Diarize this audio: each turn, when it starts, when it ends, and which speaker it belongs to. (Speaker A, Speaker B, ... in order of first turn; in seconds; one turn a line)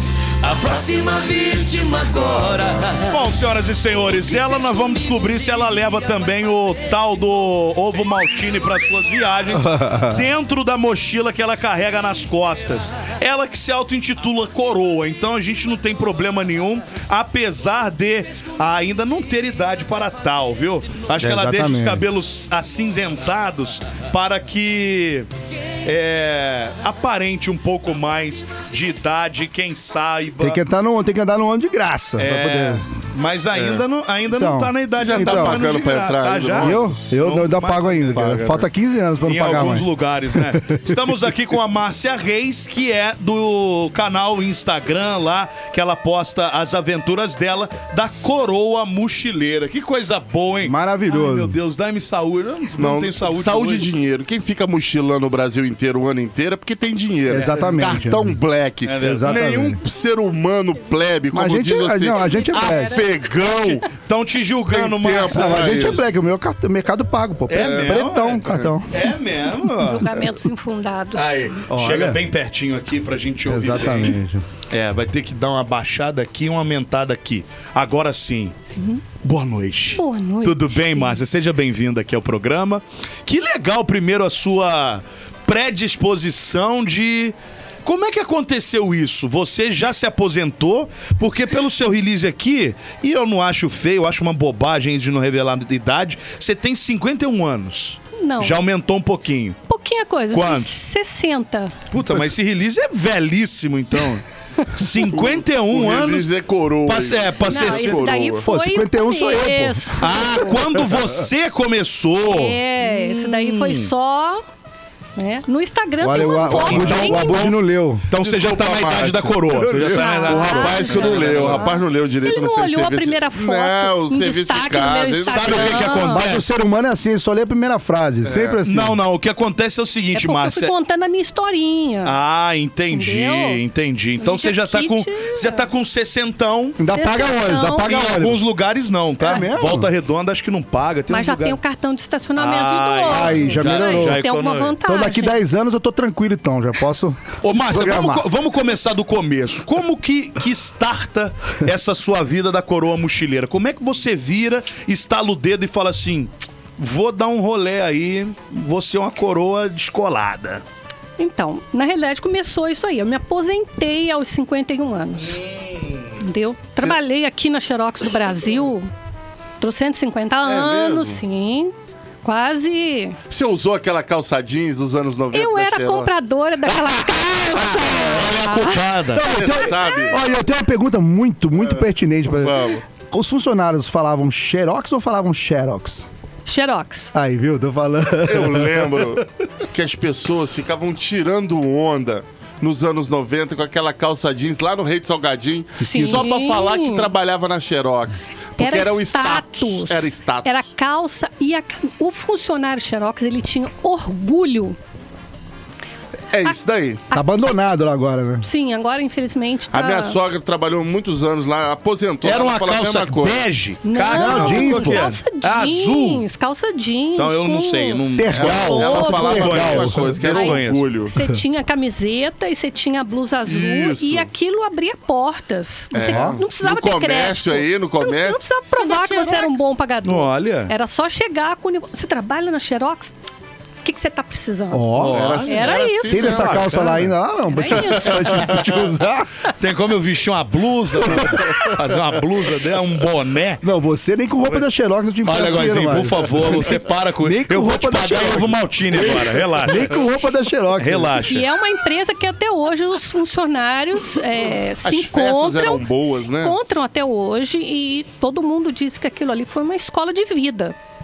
Speaker A: 0.4-3.2
Speaker B: 3.1-25.3
Speaker C: 21.2-22.0
Speaker B: 25.8-30.6
Speaker C: 30.4-32.9
Speaker B: 32.2-38.4
Speaker D: 33.5-33.8
Speaker C: 34.4-35.6
Speaker D: 34.9-36.9
Speaker C: 36.5-41.0
Speaker D: 38.1-38.6
Speaker B: 39.2-53.9
Speaker C: 50.6-51.5
Speaker D: 52.8-63.9
Speaker C: 57.3-58.4
Speaker B: 58.9-59.5
Speaker C: 59.0-59.8
Speaker C: 61.3-63.0
Speaker E: 62.2-63.0
Speaker B: 63.8-66.0
Speaker D: 64.7-66.0
Speaker C: 65.2-69.0
Speaker B: 67.5-70.1
Speaker D: 67.5-68.7
Speaker E: 69.7-71.6
Speaker B: 71.1-78.5
Speaker C: 71.7-72.2
Speaker C: 73.4-74.4
Speaker E: 78.7-79.0
Speaker B: 79.2-99.6
Speaker E: 79.9-81.2
Speaker E: 98.2-98.6
Speaker E: 99.7-101.7
Speaker B: 100.3-100.8
Speaker B: 101.9-106.3
Speaker D: 105.1-108.4
Speaker B: 106.8-108.0
Speaker E: 107.5-110.6
Speaker C: 108.4-110.6
Speaker B: 110.0-113.9
Speaker E: 112.2-114.4
Speaker E: 115.2-117.5
Speaker C: 116.0-118.0
Speaker B: 116.2-117.3
Speaker D: 116.6-117.5
Speaker B: 118.1-121.6
Speaker D: 118.2-126.0
Speaker C: 119.5-120.0
Speaker E: 119.8-126.4
Speaker B: 125.3-126.5
Speaker C: 126.0-129.0
Speaker D: 128.2-128.6
Speaker B: 128.6-130.7
Speaker E: 130.1-132.2
Speaker B: 132.0-136.8
Speaker E: 132.9-133.6
Speaker E: 134.2-135.7
Speaker C: 136.8-138.4
Speaker E: 136.9-138.1
Speaker B: 137.8-141.6
Speaker C: 139.2-139.9
Speaker E: 141.1-145.4
Speaker B: 142.3-144.8
Speaker C: 143.1-144.2
Speaker C: 144.8-148.2
Speaker B: 147.4-160.6
Speaker E: 161.2-165.4
Speaker B: 165.2-166.2
Speaker E: 166.2-168.9
Speaker E: 169.6-171.7
Speaker D: 170.4-171.2
Speaker E: 172.2-173.2
Speaker D: 173.3-176.1
Speaker E: 175.3-178.9
Speaker B: 177.5-179.5
Speaker C: 179.2-186.1
Speaker D: 179.2-180.2
Speaker D: 182.3-182.8
Speaker E: 186.4-187.1
Speaker C: 187.1-189.2
Speaker D: 188.2-200.7
Speaker C: 195.8-196.2
Speaker E: 195.8-197.1
Speaker E: 198.6-204.8
Speaker D: 206.3-207.0
Speaker E: 207.1-207.5
Speaker C: 207.1-208.4
Speaker E: 208.4-210.2
Speaker D: 209.7-213.5
Speaker B: 212.2-216.2
Speaker E: 213.8-233.1
Speaker C: 214.1-215.1
Speaker B: 217.2-220.8
Speaker C: 218.2-220.2
Speaker D: 218.3-221.1
Speaker D: 223.5-224.3
Speaker D: 225.9-229.6
Speaker C: 226.1-226.4
Speaker B: 230.0-230.7
Speaker E: 233.8-236.6
Speaker C: 234.7-235.5
Speaker B: 235.0-235.7
Speaker D: 235.0-237.1
Speaker C: 236.0-239.4
Speaker E: 237.5-238.6
Speaker D: 238.0-238.6
Speaker B: 239.5-243.6
Speaker C: 241.1-241.5
Speaker C: 243.6-251.2
Speaker B: 245.2-250.0
Speaker B: 250.8-251.5
Speaker E: 251.2-260.8
Speaker D: 254.8-256.6